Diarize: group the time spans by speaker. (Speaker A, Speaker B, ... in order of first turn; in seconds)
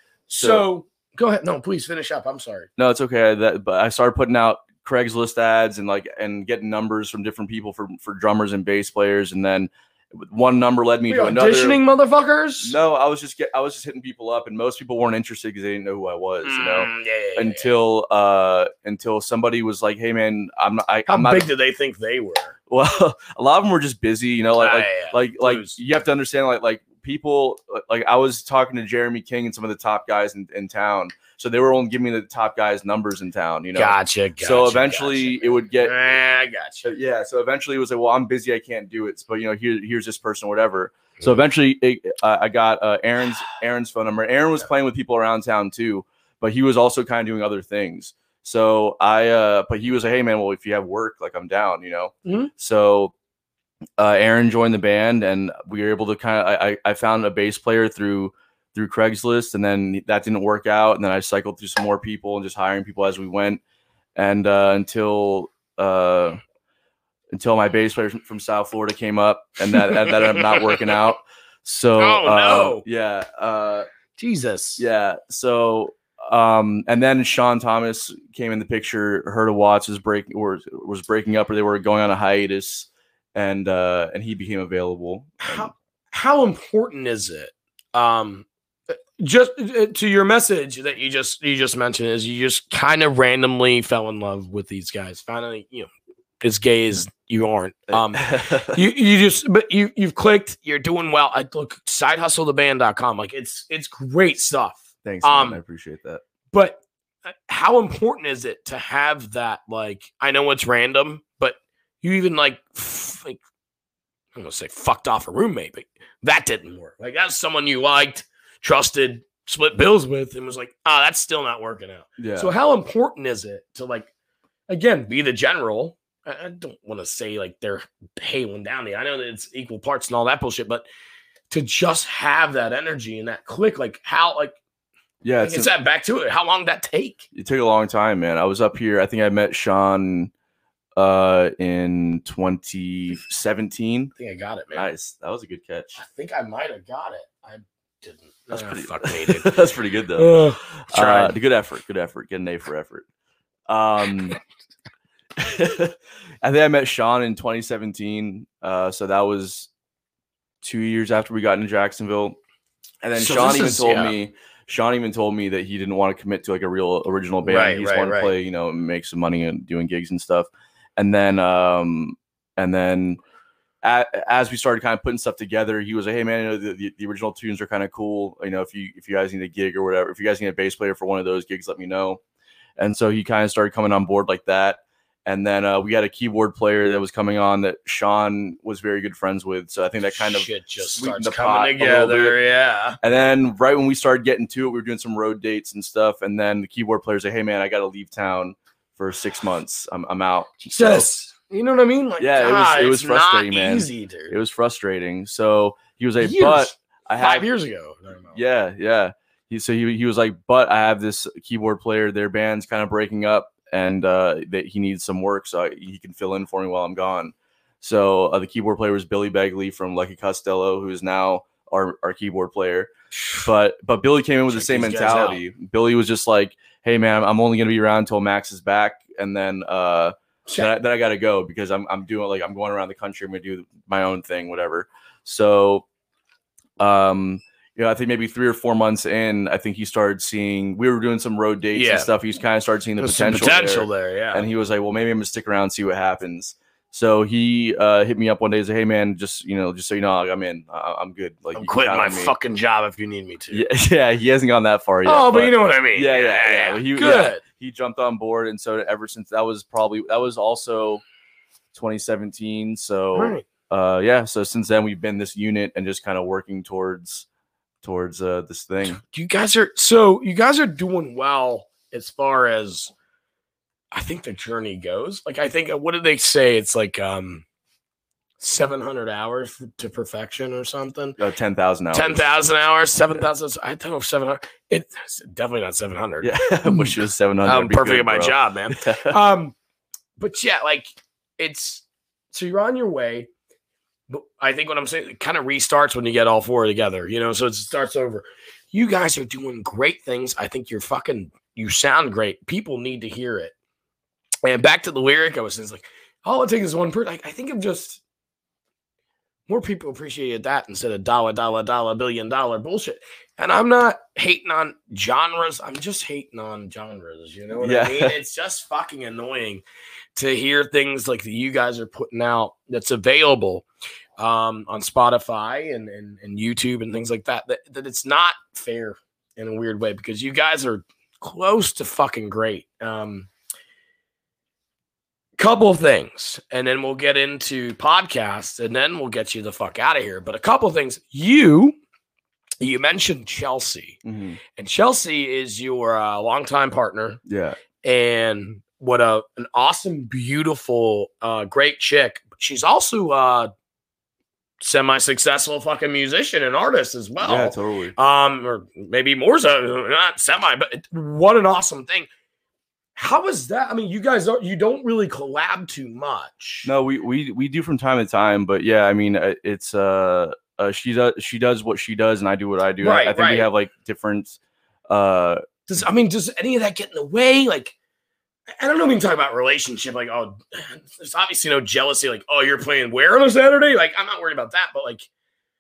Speaker A: 0.3-2.7, 11.1-12.8, 16.4-17.7, 21.1-22.6, 24.6-25.8, 33.8-36.9, 52.2-52.5, 69.8-71.0, 72.0-72.8, 74.2-74.8, 85.4-95.9, 96.4-105.6, 106.5-113.4, 114.3-124.1, 124.7-130.9, 131.5-134.6, 135.4-137.3, 144.2-144.9, 145.9-149.6, 150.2-151.3, 163.2-164.1, 167.4-168.3, 190.1-193.0, 200.7-204.4, 206.2-208.4, 224.5-225.4, 241.7-242.1, 243.0-244.5, 251.6-253.7, 255.1-257.4, 263.1-263.4, 268.8-272.9, 273.9-277.4, 278.4-281.2, 281.9-289.6, 290.2-293.3, 294.1-303.5, 304.4-308.0, 309.5-319.6, 320.1-323.7, 324.2-333.3, 335.4-341.8, 342.6-344.0, 344.6-347.2, 347.8-353.5, 354.6-362.1, 362.9-366.7, 372.8-373.5, 375.7-377.8, 378.6-385.1
Speaker B: 0.4-0.7, 2.8-11.8, 12.6-21.5, 22.7-36.0, 36.8-53.1, 54.0-63.6, 64.2-66.4, 67.3-73.9, 74.8-85.7, 97.9-98.8, 105.0-106.2, 122.2-122.5, 135.2-135.7, 137.3-140.3, 141.0-144.1, 144.8-146.0, 148.5-153.1, 153.7-154.4, 155.4-159.7, 160.6-162.4, 163.0-173.2, 173.8-182.2, 182.8-192.4, 193.0-201.1, 202.2-207.5, 208.3-235.8, 236.8-252.3, 253.5-261.0, 261.7-267.3, 267.8-269.0, 281.2-282.2, 286.2-289.2, 317.6-318.2, 344.1-344.4, 347.3-347.6, 357.2-357.9, 366.6-374.4, 374.9-375.4